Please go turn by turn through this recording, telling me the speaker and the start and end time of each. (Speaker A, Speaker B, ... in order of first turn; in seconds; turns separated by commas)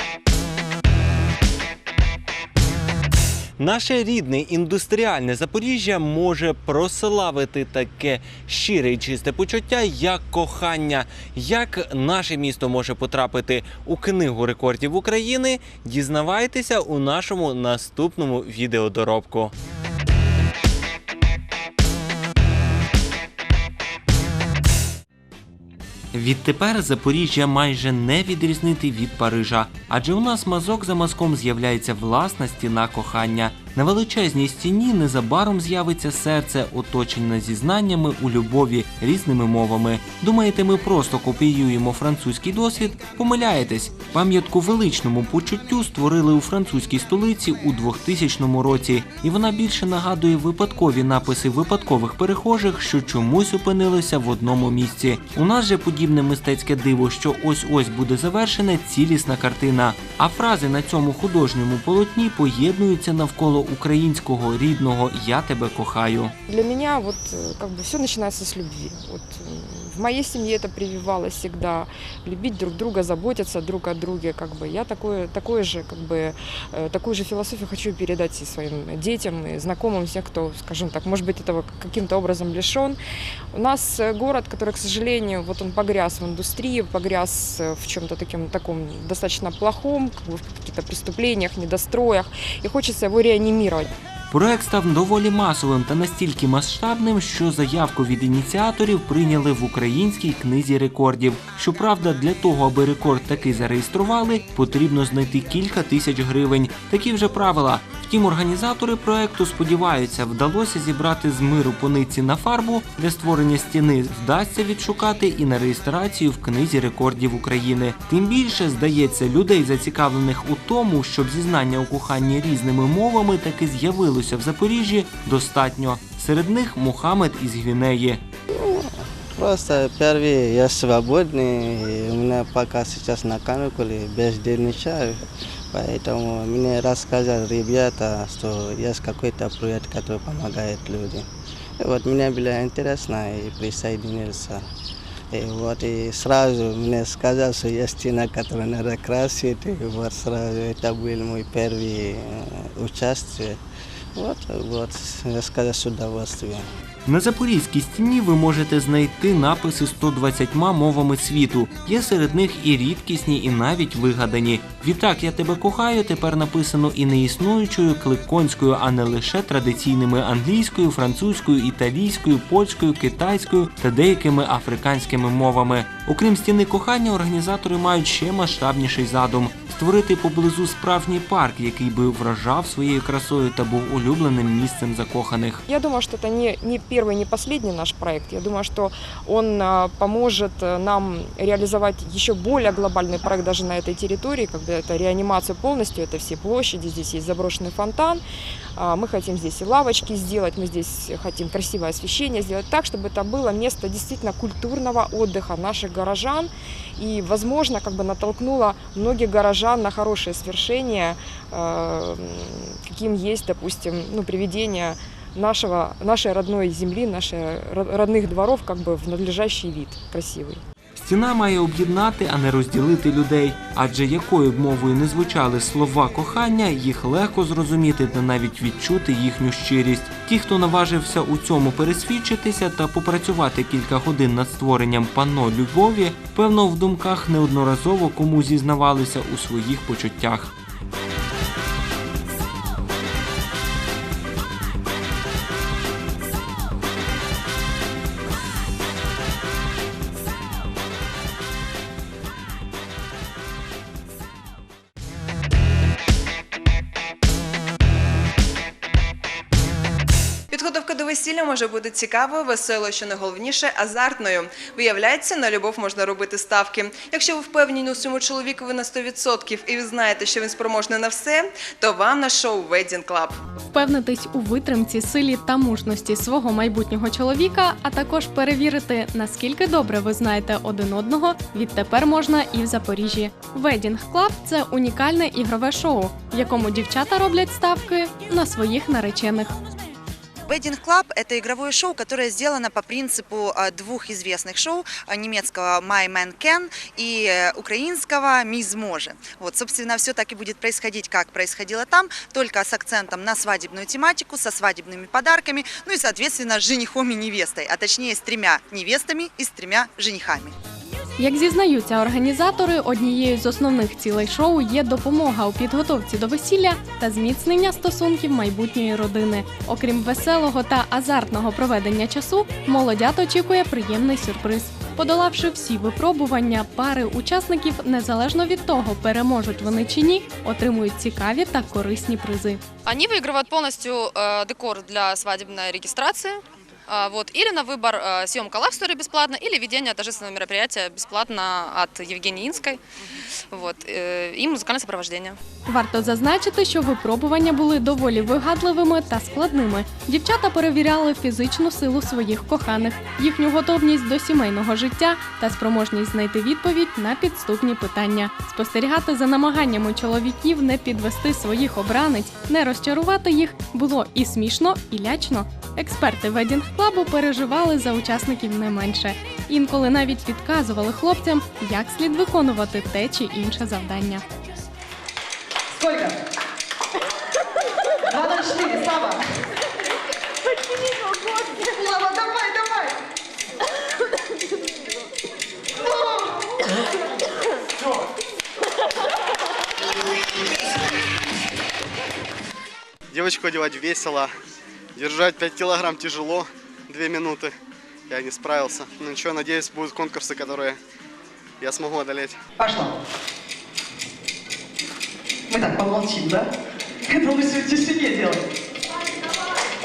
Speaker A: 3.6-19.5, Speaker A: 26.1-66.3, Speaker B: 66.5-83.0, Speaker B: 83.5-93.9, Speaker A: 94.3-128.2, Speaker C: 128.5-135.2, Speaker C: 135.7-141.2, Speaker C: 141.8-144.6, Speaker C: 145.3-153.6, Speaker C: 154.2-156.6, Speaker A: 157.1-185.6, Speaker B: 185.7-198.2, Speaker B: 198.8-220.6, Speaker A: 220.9-240.5, Speaker D: 260.5-273.3, Speaker E: 273.7-289.6, Speaker F: 290.5-310.5, Speaker E: 311.2-332.6, Speaker G: 332.9-342.8, Speaker G: 343.5-345.4, Speaker E: 345.6-374.2, Speaker H: 375.8-376.2, Speaker H: 378.1-379.2, Speaker H: 381.6-382.9, Speaker H: 385.8-386.3, Speaker I: 393.1-394.3, Speaker I: 395.0-397.5, Speaker I: 398.1-400.8, Speaker I: 401.6-402.3, Speaker H: 402.6-402.9, Speaker H: 405.5-406.5, Speaker H: 407.1-408.4